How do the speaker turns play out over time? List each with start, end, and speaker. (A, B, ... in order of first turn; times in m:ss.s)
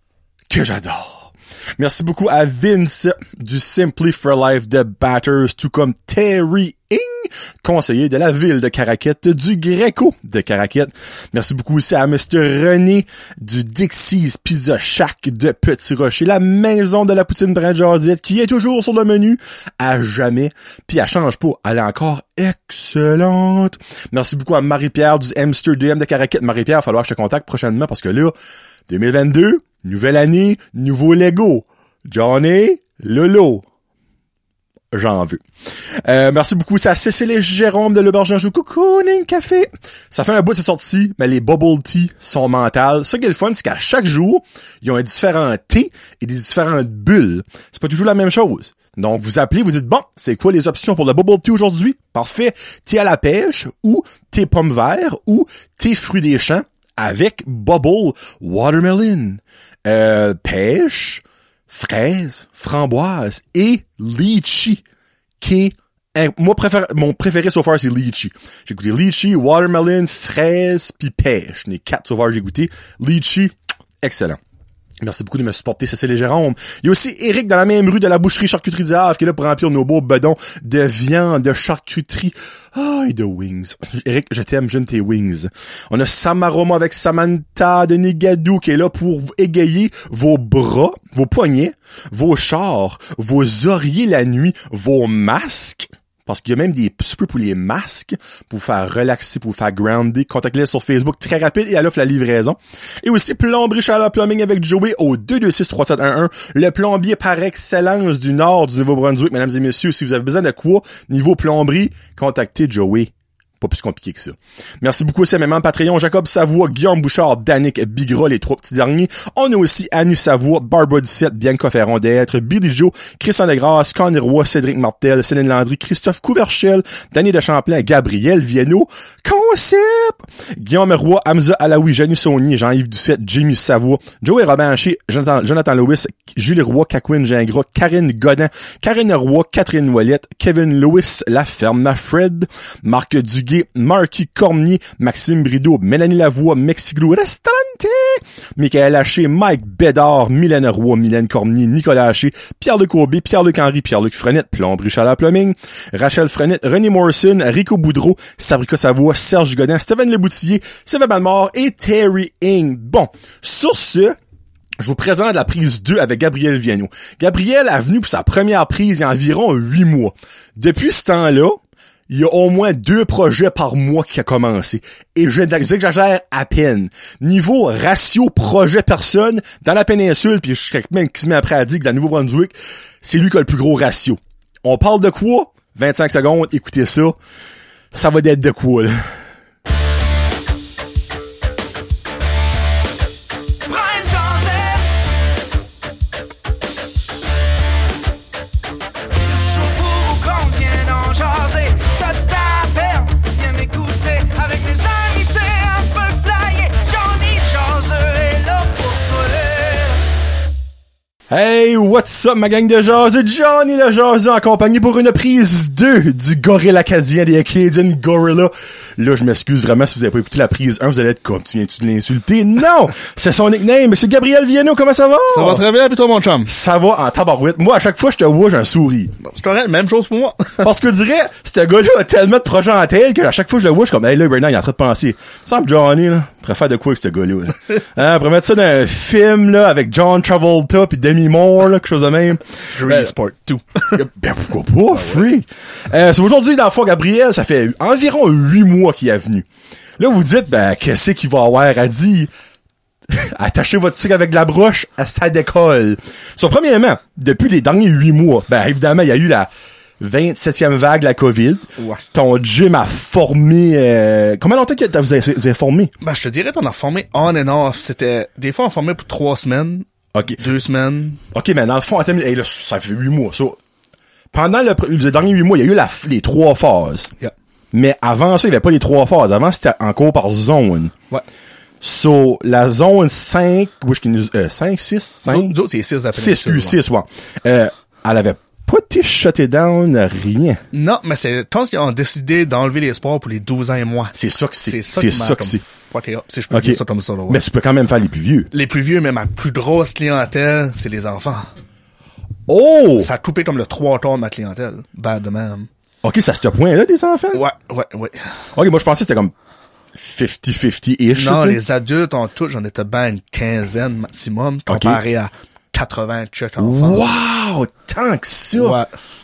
0:00.5-0:28.3 A
0:28.9-0:33.6 A
0:34.9-0:35.4 A
0:36.0-1:04.8 A
1:05.4-1:14.4 A
1:15.0-2:44.2 A
2:44.8-2:51.6 A
2:52.1-3:07.2 A
3:07.9-3:09.0 A
3:13.8-3:14.8 B
3:19.7-3:22.3 B
3:23.0-3:28.0 B
3:28.6-3:29.3 B
3:31.3-3:45.6 A
3:45.3-3:46.5 C
3:46.4-3:49.1 A
3:49.2-3:50.7 C
3:50.6-4:03.1 A
4:02.7-4:04.0 C
4:03.9-4:09.4 A
4:04.9-4:05.2 C
4:10.0-4:12.3 A
4:13.1-4:19.5 A
4:20.0-4:25.9 A
4:21.8-4:22.0 C
4:26.0-4:31.2 C
4:30.1-4:30.4 A
4:31.3-4:33.6 A
4:34.3-4:37.1 A
4:37.7-4:40.9 A
4:41.8-4:45.5 A
4:45.2-4:46.8 C
4:46.1-4:50.6 A
4:50.7-4:57.4 C
4:54.1-4:55.6 A
4:56.5-4:58.5 A
4:58.5-5:01.5 C
5:02.5-5:03.1 A
5:03.0-5:05.7 C
5:06.0-5:07.4 A
5:07.3-5:08.3 C
5:08.5-5:09.3 A
5:09.9-5:11.6 A
5:11.1-5:17.0 C
5:14.7-5:15.0 A
5:16.6-5:18.8 A
5:18.5-5:18.9 C